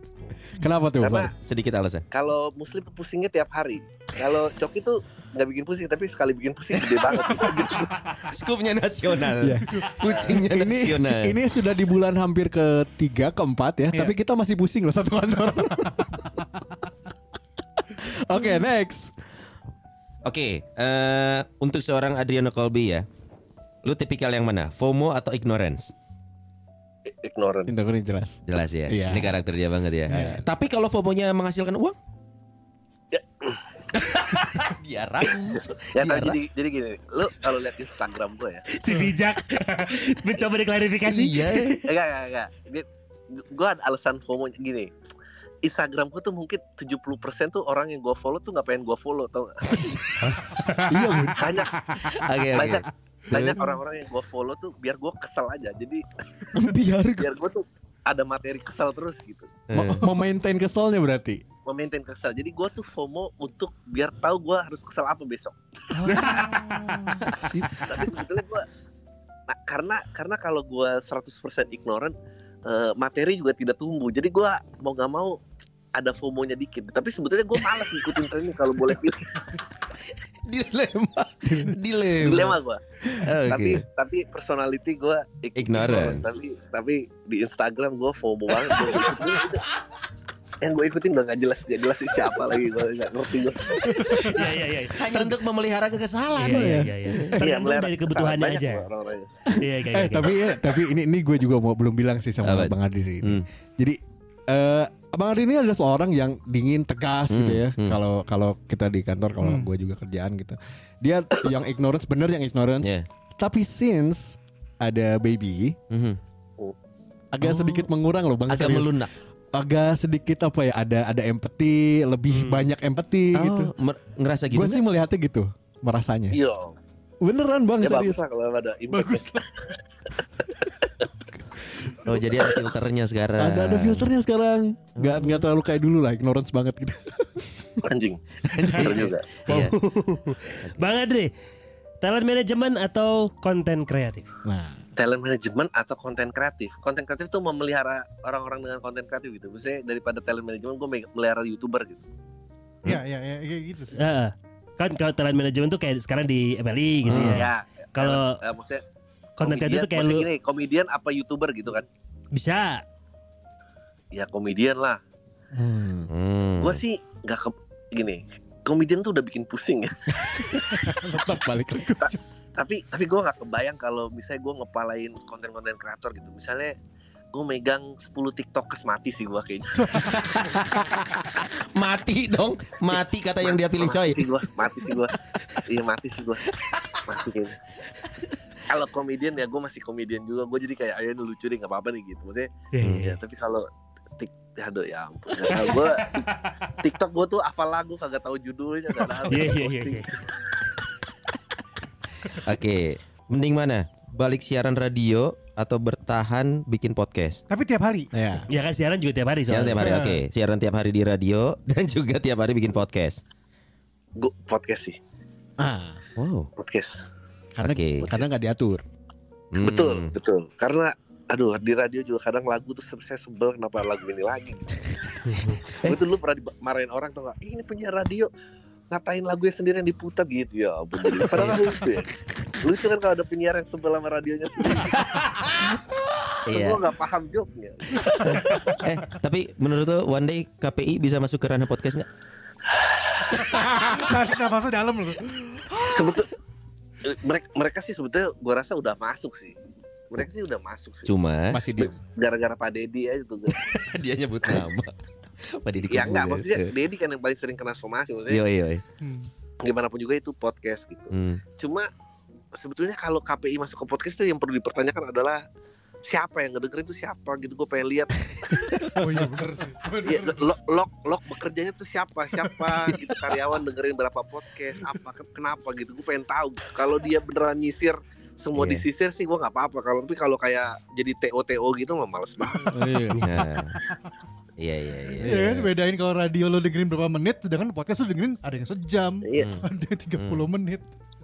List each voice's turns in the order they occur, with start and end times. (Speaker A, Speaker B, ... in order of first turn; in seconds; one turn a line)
Speaker A: 0.5-1.3
Speaker B: 1.0-1.3
Speaker C: 1.4-2.0
Speaker B: 2.1-8.2
Speaker C: 6.8-11.3
Speaker A: 9.4-16.6
Speaker A: 17.8-19.1
Speaker C: 20.2-23.1
Speaker C: 23.8-25.9
Speaker B: 27.1-27.7
Speaker A: 27.7-29.4
Speaker C: 28.4-31.9
Speaker A: 30.1-30.4
Speaker B: 33.1-33.6
Speaker C: 33.9-36.4
Speaker B: 35.4-38.7
Speaker D: 38.7-41.7
Speaker C: 41.0-41.9
Speaker B: 41.8-44.9
Speaker B: 45.6-50.1
Speaker A: 50.9-52.1
Speaker B: 51.3-52.0
Speaker C: 51.9-53.6
Speaker B: 52.5-59.5
Speaker C: 56.5-57.3
Speaker C: 59.7-60.1
Speaker A: 59.7-61.4
Speaker B: 61.6-66.6
Speaker E: 65.9-67.2
Speaker D: 66.0-66.7
Speaker C: 67.2-67.8
Speaker B: 67.8-68.7
Speaker B: 69.5-75.4
Speaker B: 75.9-79.5
Speaker C: 80.1-83.8
Speaker B: 82.2-89.6
Speaker C: 85.5-86.3
Speaker C: 88.7-89.3
Speaker B: 90.6-94.4
Speaker C: 93.9-94.3
Speaker D: 94.2-95.1
Speaker C: 94.9-96.8
Speaker D: 96.3-98.9
Speaker A: 96.5-97.4
Speaker B: 97.4-99.4
Speaker D: 99.5-100.4
Speaker A: 99.6-115.7
Speaker C: 102.4-103.4
Speaker C: 107.3-108.0
Speaker E: 109.4-109.7
Speaker C: 115.9-116.2
Speaker A: 117.3-123.7
Speaker C: 117.4-117.9
Speaker C: 118.5-119.1
Speaker D: 122.3-122.7
Speaker C: 123.3-124.8
Speaker A: 124.5-126.4
Speaker B: 126.3-126.8
Speaker A: 127.2-128.2
Speaker B: 127.8-129.8
Speaker E: 128.9-129.4
Speaker A: 131.6-132.2
Speaker C: 132.0-134.1
Speaker A: 133.4-137.8
Speaker C: 135.0-135.3
Speaker B: 137.8-139.3
Speaker C: 138.5-139.8
Speaker D: 139.5-141.3
Speaker C: 140.6-140.9
Speaker D: 142.0-144.3
Speaker A: 144.4-144.8
Speaker B: 144.9-152.0
Speaker E: 152.8-154.0
Speaker D: 153.9-158.4
Speaker B: 157.1-158.8
Speaker C: 157.1-157.4
Speaker D: 159.4-160.3
Speaker B: 159.4-161.9
Speaker D: 162.3-162.8
Speaker B: 164.1-165.0
Speaker A: 165.5-166.1
Speaker C: 166.1-166.8
Speaker B: 166.6-170.9
Speaker A: 170.2-172.2
Speaker B: 171.9-176.8
Speaker B: 177.3-180.4
Speaker E: 179.8-180.4
Speaker C: 180.0-184.3
Speaker B: 183.4-187.6
Speaker C: 186.6-187.0
Speaker B: 188.7-193.7
Speaker D: 192.7-193.2
Speaker C: 192.8-193.1
Speaker B: 194.2-200.2
Speaker D: 195.5-196.5
Speaker D: 199.2-200.1
Speaker C: 202.2-207.4
Speaker E: 207.5-208.1
Speaker A: 208.1-208.5
Speaker D: 208.5-210.0
Speaker C: 209.5-213.2
Speaker E: 209.8-210.2
Speaker B: 214.2-215.0
Speaker A: 215.6-216.0
Speaker C: 216.2-216.5
Speaker B: 216.6-217.0
Speaker A: 217.5-218.8
Speaker C: 217.6-218.2
Speaker C: 219.5-220.1
Speaker B: 219.6-228.3
Speaker D: 225.2-225.6
Speaker B: 228.9-235.3
Speaker C: 231.2-231.7
Speaker C: 234.8-235.7
Speaker C: 236.4-236.8
Speaker B: 236.5-238.8
Speaker C: 238.0-242.1
Speaker B: 242.7-243.4
Speaker E: 243.5-245.8
Speaker B: 245.8-246.3
Speaker B: 247.0-249.6
Speaker B: 250.1-251.1
Speaker C: 251.0-251.6
Speaker A: 251.5-251.9
Speaker B: 251.8-253.5
Speaker C: 253.5-256.7
Speaker B: 255.8-258.4
Speaker C: 258.3-258.8
Speaker E: 259.0-259.3
Speaker B: 259.6-261.9
Speaker C: 261.1-261.4
Speaker B: 262.5-265.4
Speaker B: 266.0-268.9
Speaker E: 268.9-270.4
Speaker B: 270.0-283.0
Speaker C: 278.5-278.8
Speaker A: 282.7-283.2
Speaker C: 283.2-283.8
Speaker C: 284.6-285.4
Speaker A: 285.2-285.7
Speaker E: 285.2-290.9
Speaker C: 289.4-289.6
Speaker C: 290.2-290.4